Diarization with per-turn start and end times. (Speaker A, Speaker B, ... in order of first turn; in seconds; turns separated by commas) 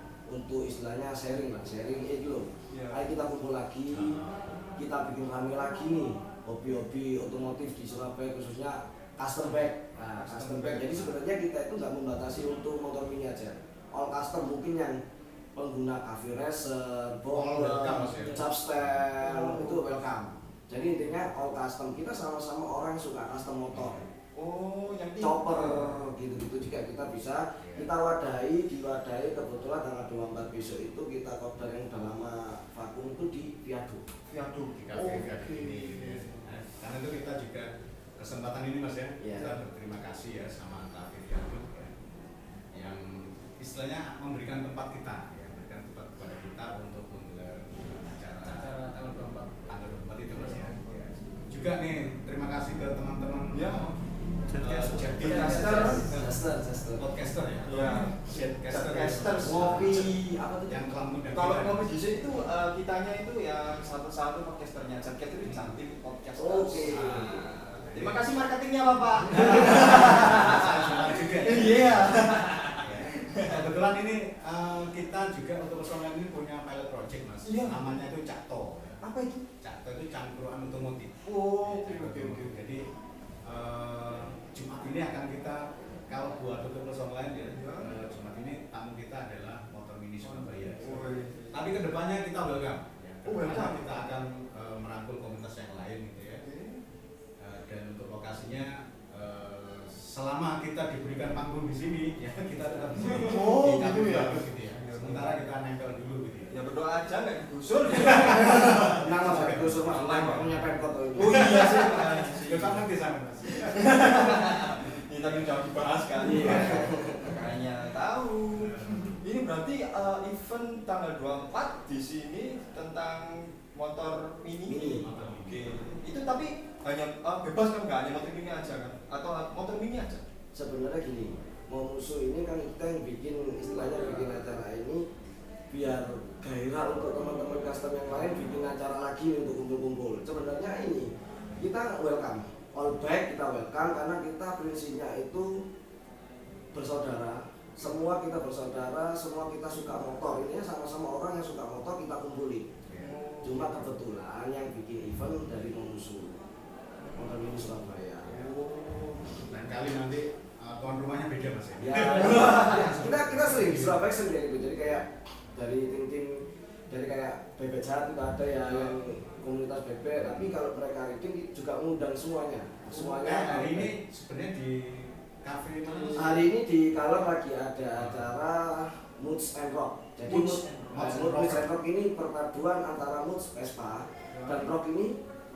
Speaker A: 0.3-4.2, Speaker B: 2.7-3.0, Speaker C: 3.9-4.5, Speaker A: 4.8-15.0, Speaker B: 10.1-11.1, Speaker A: 15.5-24.0, Speaker C: 17.3-19.1, Speaker D: 18.0-18.4, Speaker B: 19.2-19.8, Speaker C: 19.6-20.3, Speaker C: 23.7-24.1, Speaker B: 24.4-26.1, Speaker A: 25.2-34.0, Speaker C: 27.6-27.9, Speaker B: 34.3-36.4, Speaker C: 34.8-41.9, Speaker A: 39.2-39.6, Speaker C: 42.7-48.7, Speaker D: 48.4-49.7, Speaker C: 49.7-53.9, Speaker D: 50.4-50.6, Speaker B: 53.5-54.0, Speaker C: 54.5-56.0, Speaker D: 54.6-56.3, Speaker B: 55.2-56.2, Speaker A: 55.4-57.1, Speaker C: 57.0-61.9, Speaker B: 57.6-60.1, Speaker A: 59.4-60.9, Speaker B: 61.3-73.7, Speaker C: 65.4-65.8, Speaker A: 66.4-67.5, Speaker C: 66.8-68.2, Speaker C: 69.3-72.2, Speaker C: 72.8-79.0, Speaker B: 77.4-77.9, Speaker B: 79.0-79.4, Speaker C: 79.6-82.8, Speaker B: 81.2-82.6, Speaker C: 83.4-96.4, Speaker B: 87.5-87.9, Speaker B: 90.2-91.6, Speaker B: 93.2-94.0, Speaker B: 96.4-96.8, Speaker C: 97.4-106.5, Speaker B: 103.2-105.5, Speaker B: 106.5-110.4, Speaker C: 107.9-114.6, Speaker A: 108.3-111.5, Speaker B: 111.2-112.9, Speaker B: 113.5-124.9, Speaker C: 115.2-115.5, Speaker A: 116.2-117.3, Speaker C: 116.2-116.9, Speaker C: 118.6-119.2, Speaker A: 124.7-125.0, Speaker C: 124.7-125.8, Speaker B: 125.4-130.2, Speaker A: 130.5-135.0, Speaker D: 133.8-134.3, Speaker A: 135.7-145.5, Speaker A: 146.7-152.7, Speaker C: 152.9-153.1, Speaker B: 153.0-153.8, Speaker A: 153.4-156.4, Speaker B: 157.0-157.3, Speaker A: 157.1-158.3, Speaker B: 158.4-159.3, Speaker C: 159.3-164.1, Speaker A: 161.8-173.9, Speaker B: 162.2-162.8, Speaker B: 168.6-169.0, Speaker C: 170.1-170.5, Speaker C: 172.9-176.4, Speaker D: 175.8-176.3, Speaker A: 176.1-185.1, Speaker C: 177.9-178.3, Speaker B: 180.2-181.1, Speaker C: 180.9-181.7, Speaker B: 184.3-184.6